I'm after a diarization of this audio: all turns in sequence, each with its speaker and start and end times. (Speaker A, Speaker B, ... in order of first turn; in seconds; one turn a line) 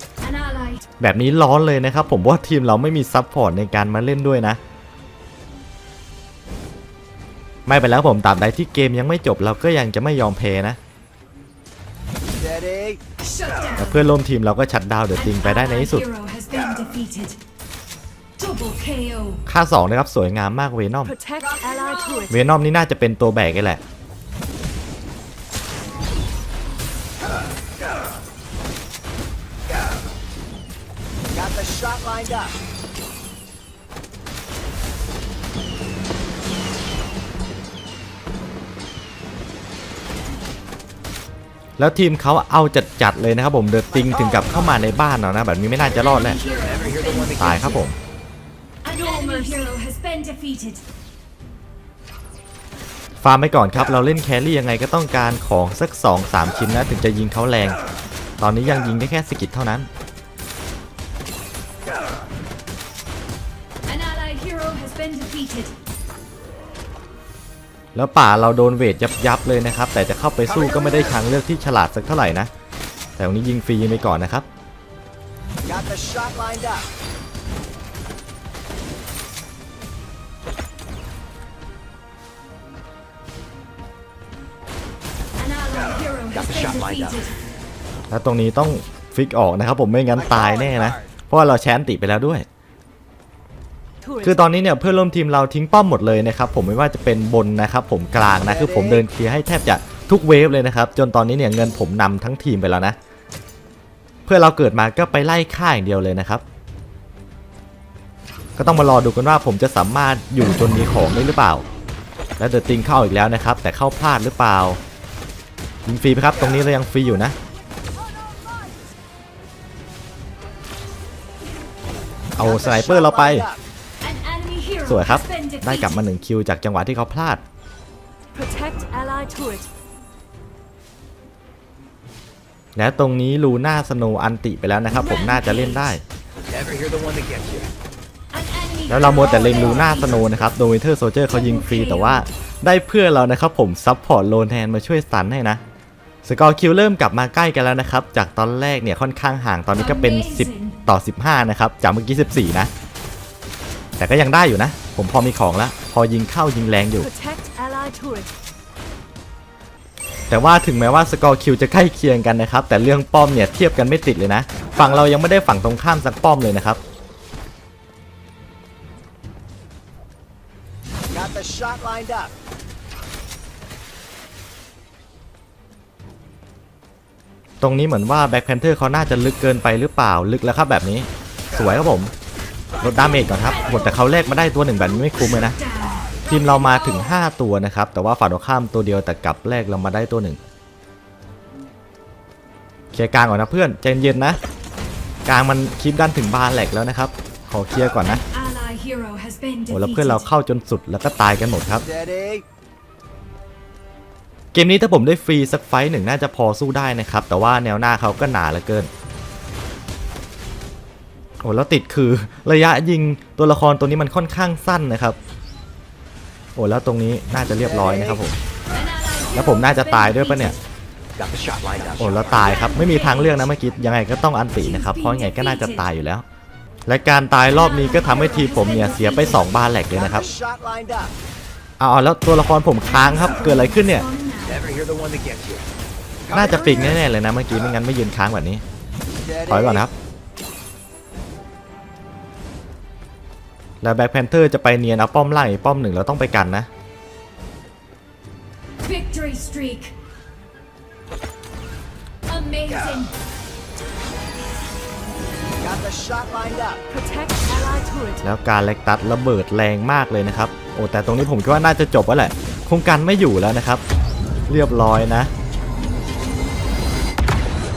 Speaker A: 0.2-0.9
Speaker B: 1.0-4.6
Speaker B: 7.7-10.8
Speaker C: 12.4-13.0
Speaker A: 13.2-14.1
Speaker B: 13.8-16.1
Speaker A: 15.2-17.4
Speaker A: 18.4-19.4
Speaker B: 19.5-21.1
Speaker A: 21.1-22.4
Speaker B: 22.3-23.8
Speaker C: 31.4-32.4
Speaker B: 41.8-46.4
Speaker C: 44.0-44.7
Speaker A: 45.8-47.8
Speaker C: 46.5-47.6
Speaker B: 47.4-48.0
Speaker A: 48.8-50.8
Speaker B: 53.2-57.8
Speaker B: 58.4-59.9
Speaker A: 63.9-65.8
Speaker B: 68.0-72.5
Speaker B: 73.2-74.5
Speaker C: 75.7-76.8
Speaker A: 85.4-87.3
Speaker C: 86.3-87.2
Speaker B: 88.1-92.5
Speaker C: 90.3-90.9
Speaker A: 94.0-94.4
Speaker B: 94.2-103.0
Speaker C: 98.6-99.0
Speaker B: 104.3-106.4
Speaker B: 108.6-111.7
Speaker B: 112.4-114.8
Speaker B: 115.9-117.4
Speaker B: 122.4-123.5
Speaker C: 122.4-123.6
Speaker A: 124.0-126.0
Speaker B: 124.8-127.4
Speaker A: 128.3-129.7
Speaker B: 132.8-136.0
Speaker A: 134.9-136.0
Speaker C: 136.5-137.7
Speaker A: 138.3-140.5
Speaker B: 138.9-145.6
Speaker A: 141.3-142.2
Speaker B: 146.2-152.7
Speaker A: 149.8-150.8
Speaker B: 154.0-157.1
Speaker A: 157.0-158.3
Speaker B: 160.3-166.8
Speaker C: 171.1-172.3
Speaker B: 177.6-182.1
Speaker B: 182.8-185.6
Speaker A: 183.0-187.2
Speaker B: 186.3-190.4
Speaker B: 192.9-194.4
Speaker B: 195.3-198.2
Speaker A: 198.0-200.3
Speaker B: 199.7-201.8
Speaker C: 201.9-202.4
Speaker B: 204.5-208.9
Speaker B: 211.4-215.2
Speaker B: 216.6-218.4
Speaker C: 217.8-218.2
Speaker A: 218.7-220.6
Speaker B: 219.3-220.6
Speaker C: 221.2-222.5
Speaker B: 222.0-226.2
Speaker A: 222.2-223.5
Speaker A: 224.6-225.8
Speaker B: 226.9-230.3
Speaker A: 227.5-229.7
Speaker C: 229.9-231.1
Speaker B: 231.8-234.1
Speaker A: 232.9-234.7
Speaker C: 234.5-235.7
Speaker B: 236.3-238.6
Speaker C: 239.3-239.8
Speaker B: 239.5-239.9
Speaker B: 243.8-246.7
Speaker A: 248.8-249.9
Speaker A: 252.3-253.1
Speaker C: 255.6-256.8
Speaker A: 256.9-258.2
Speaker B: 258.2-263.8
Speaker B: 264.5-265.3